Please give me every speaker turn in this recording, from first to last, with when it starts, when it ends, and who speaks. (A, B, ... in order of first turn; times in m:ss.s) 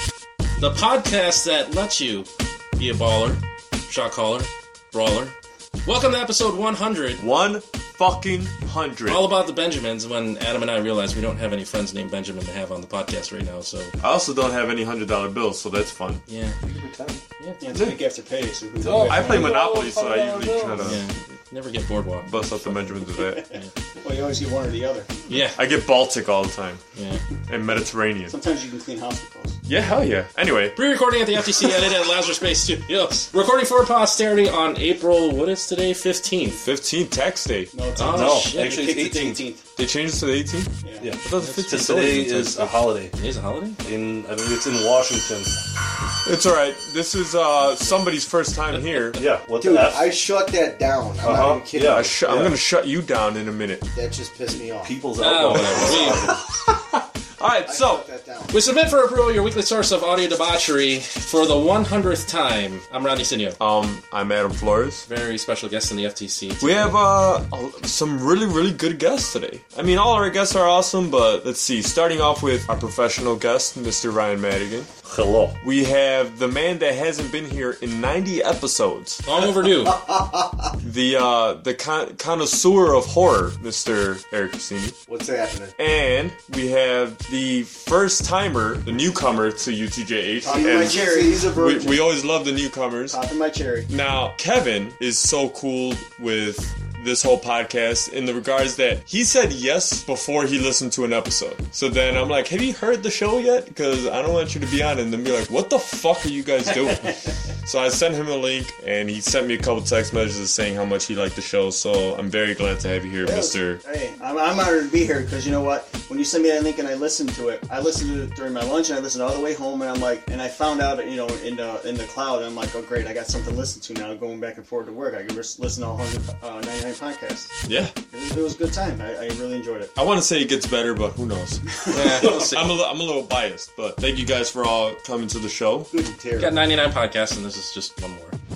0:00.6-0:07.2 A
0:07.2-0:09.3 B
0:09.0-0:13.9 A
0:14.0-0:16.2 B
0:16.3-0:16.6 A
0:16.6-0:17.2 C
0:17.6-0:19.6 D
0:17.7-0:18.0 B
0:18.8-0:22.3 A
0:18.8-0:21.0 C
0:18.9-0:21.0 B
0:22.2-0:23.4 B
0:23.2-0:25.1 D
0:25.3-0:25.6 A
0:25.4-0:26.8 B
0:26.9-0:27.2 A
0:27.5-0:28.4 B
0:28.3-0:29.6 D
0:29.6-0:30.8 B
0:30.8-0:36.6 A
0:36.5-0:37.7 B
0:37.7-0:39.6 D
0:38.0-0:38.7 A
0:38.0-0:39.4 C
0:39.8-0:42.8 B
0:40.8-0:41.1 D
0:41.0-0:43.1 C
0:41.4-0:41.7 A
0:43.1-0:43.8 A
0:43.8-0:45.5 C
0:46.2-0:49.2 B
0:49.2-0:50.1 C
0:49.6-0:52.1 E
0:51.2-0:52.5 C
0:51.8-0:53.9 B
0:53.9-0:54.9 E
0:54.8-0:56.4 C
0:55.2-0:56.3 A
0:55.8-0:56.4 E
0:56.9-0:58.0 B
0:57.6-0:58.5 E
0:58.5-1:03.6 A
1:03.6-1:05.0 B
1:05.1-1:07.0 A
1:06.6-1:14.9 B
1:15.0-1:15.6 C
1:15.6-1:19.2 B
1:19.2-1:20.0 A
1:19.8-1:20.7 E
1:20.8-1:25.0 B
1:25.1-1:25.7 E
1:25.8-1:33.2 B
1:30.4-1:31.5 D
1:30.4-1:32.0 E
1:33.1-1:33.9 D
1:33.9-1:53.8 B
1:53.2-2:07.5 D
2:07.6-2:07.9 B
2:08.1-2:09.9 D
2:10.0-2:11.6 B
2:11.8-2:12.4 D
2:11.9-2:12.7 A
2:12.2-2:15.9 B
2:15.9-2:16.6 E
2:16.4-2:18.4 A